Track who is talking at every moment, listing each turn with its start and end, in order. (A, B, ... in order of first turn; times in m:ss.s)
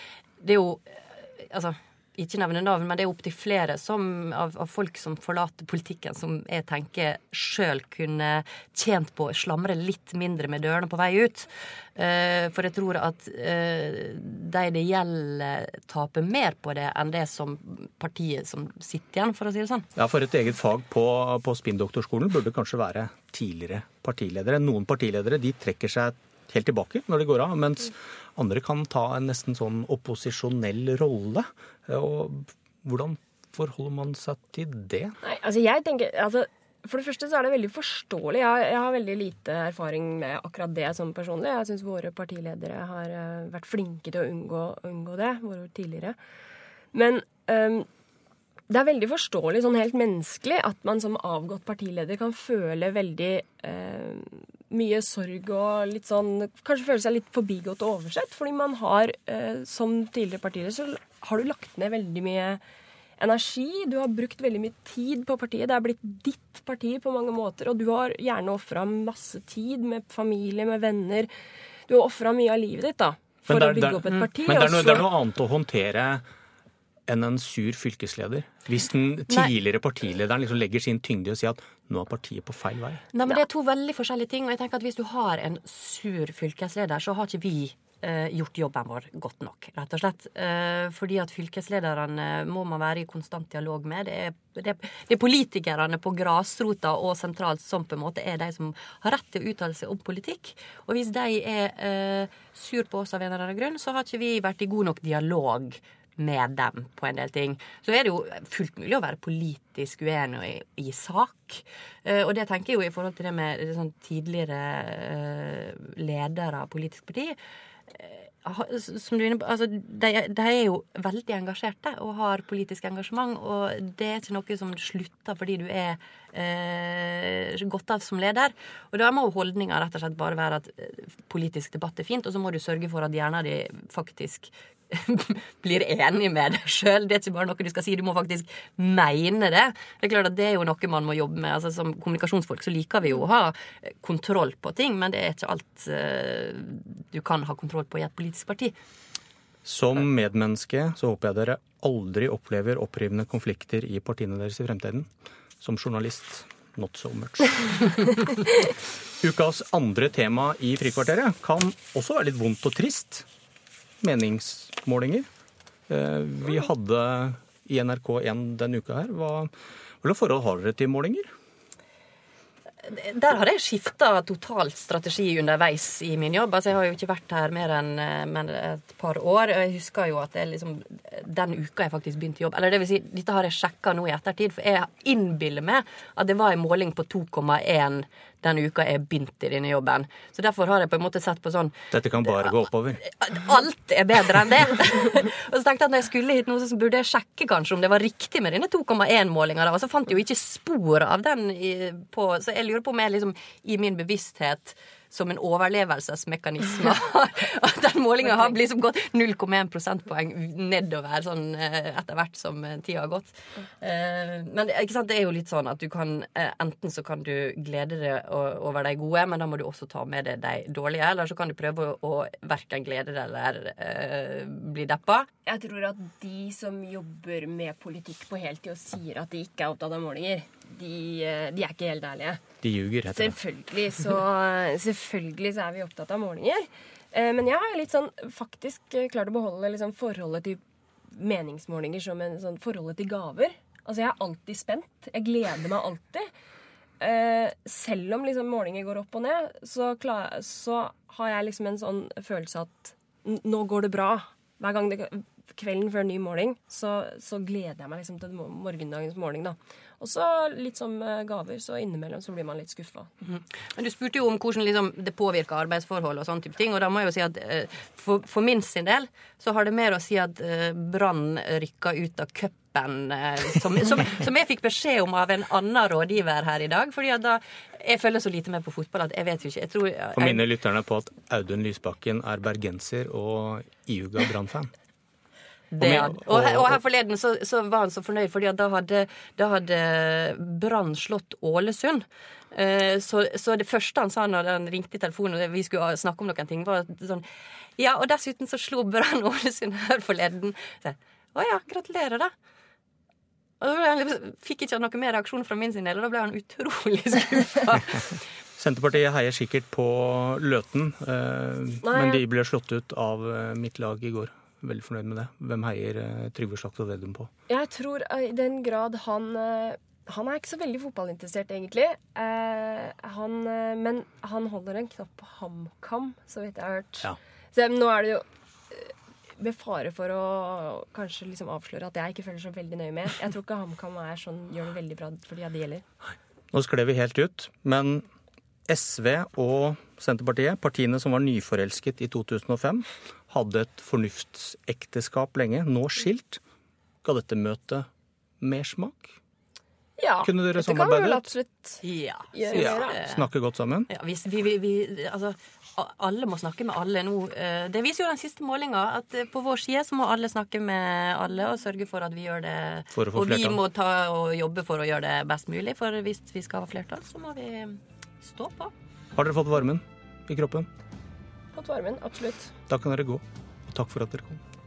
0:00.4-0:19.9 A
0:20.0-0:35.2 B
0:35.2-0:46.2 C
0:46.9-0:47.9 C
0:48.7-1:02.6 C
1:03.2-1:11.3 C
1:11.9-1:15.2 C
1:13.5-1:16.2 B
1:17.1-1:23.0 B
1:23.1-1:57.4 A
1:57.9-2:28.8 A
2:29.6-2:35.1 B
2:35.6-2:38.2 B
2:39.2-2:43.3 B
2:44.0-2:45.3 B
2:45.9-2:49.5 B
2:50.0-2:51.3 B
2:52.8-3:12.5 A
3:11.9-3:13.0 B
3:13.0-3:45.3 A
3:45.5-3:52.4 C
3:52.6-3:53.4 B
3:53.1-4:00.6 C
4:01.1-4:06.3 C
4:07.0-4:23.1 C
4:23.2-4:40.5 A
4:40.2-4:44.7 B
4:45.7-4:57.2 A
4:45.8-4:46.8 B
4:57.8-5:02.3 A
5:03.6-5:08.2 A
5:08.6-5:17.3 B
5:11.8-5:12.2 C
5:17.5-5:35.8 C
5:36.5-5:38.0 B
5:38.7-5:46.4 B
5:47.0-5:47.9 B
5:48.4-5:49.2 B
5:50.0-5:51.8 C
5:50.2-5:51.3 B
5:51.8-5:53.3 A
5:52.3-5:53.0 C
5:52.5-5:53.9 B
5:53.9-6:08.7 A
6:03.0-6:03.6 B
6:09.2-6:10.7 B
6:11.5-6:12.5 C
6:12.7-6:14.4 B